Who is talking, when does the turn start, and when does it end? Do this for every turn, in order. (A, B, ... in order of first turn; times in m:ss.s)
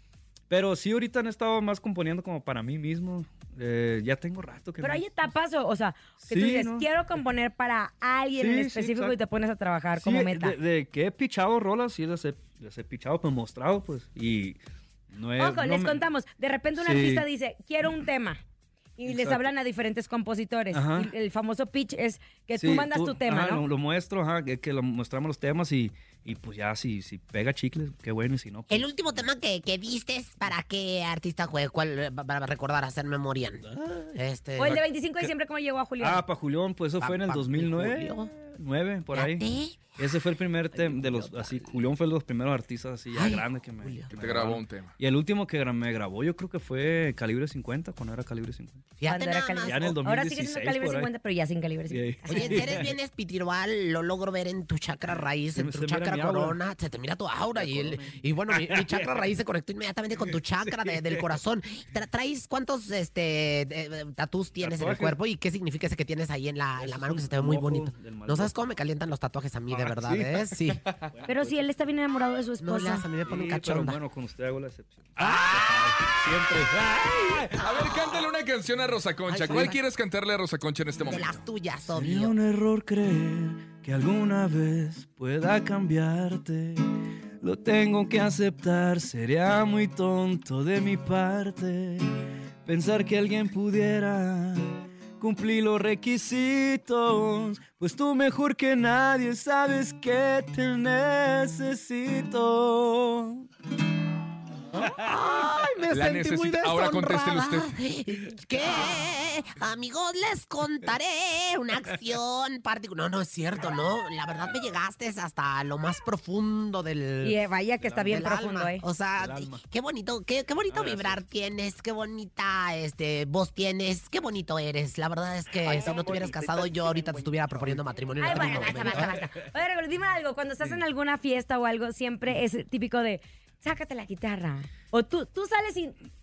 0:00.5-0:05.1 A
0:04.8-0:10.6 B
0:06.2-0:06.9 A
0:08.4-0:09.2 A
0:10.0-0:14.6 A
0:15.1-0:16.0 A
0:15.4-0:18.4 B
0:16.8-0:17.2 A
0:19.0-0:23.6 B
0:19.0-0:19.5 A
0:20.7-0:21.1 A
0:22.6-0:29.2 A
0:28.7-0:34.8 C
0:33.6-0:35.3 A
0:34.6-0:36.2 B
0:36.0-0:48.9 A
0:37.0-0:38.3 C
0:39.1-0:40.1 C
0:40.7-0:41.7 C
0:43.1-0:44.1 C
0:44.2-0:44.9 D
0:49.0-0:50.0 C
0:49.1-0:52.7 B
0:49.6-0:51.1 A
0:51.9-0:52.9 A
0:52.3-1:10.8 C
0:55.6-0:56.6 A
0:57.5-0:59.2 A
1:00.2-1:01.3 A
1:04.6-1:05.2 A
1:06.8-1:08.5 A
1:09.7-1:10.6 A
1:11.1-1:11.7 A
1:11.3-1:13.0 B
1:12.6-1:14.0 C
1:13.2-1:17.6 A
1:15.2-1:16.1 C
1:17.4-1:21.4 D
1:19.3-1:19.8 C
1:21.0-1:22.3 C
1:21.9-1:26.8 A
1:27.4-1:32.1 A
1:32.6-1:43.4 A
1:44.7-1:57.4 C
1:45.9-1:47.7 D
1:57.2-1:58.8 B
1:57.8-1:58.4 A
1:58.0-2:09.3 C
1:59.2-1:59.6 A
2:00.7-2:01.2 A
2:07.6-2:09.5 A
2:08.2-2:16.0 B